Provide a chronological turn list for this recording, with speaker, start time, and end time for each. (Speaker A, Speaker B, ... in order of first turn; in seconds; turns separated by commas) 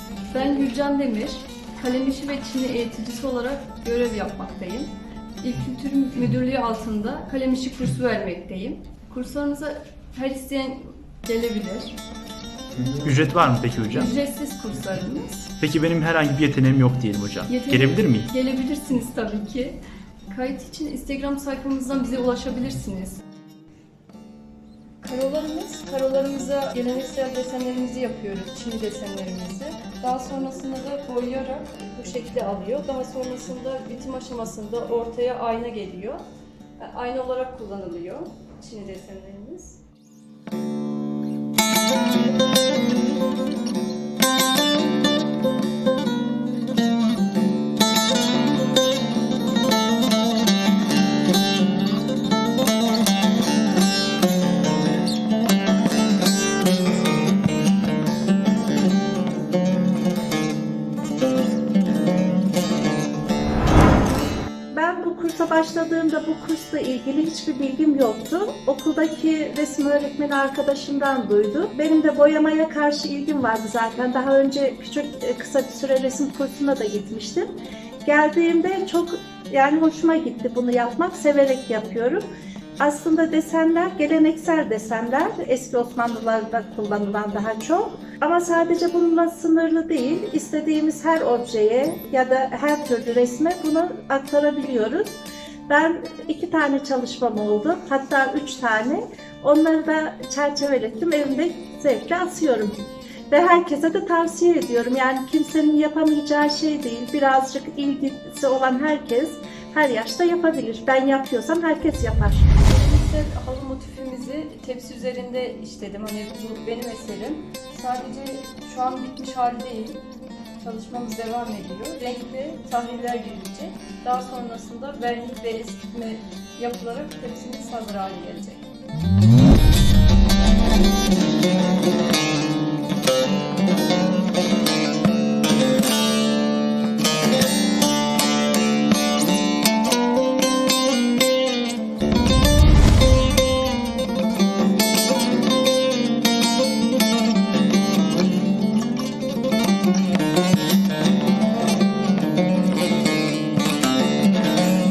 Speaker A: 0.2-12.0, Speaker B: 12.8-14.1, Speaker A: 13.9-15.5, Speaker B: 15.6-18.3, Speaker A: 17.5-23.2, Speaker A: 25.0-36.2, Speaker A: 36.8-39.8, Speaker C: 64.7-77.5, Speaker C: 78.0-82.3, Speaker C: 82.8-112.5, Speaker A: 112.5-120.0, Speaker A: 120.6-128.7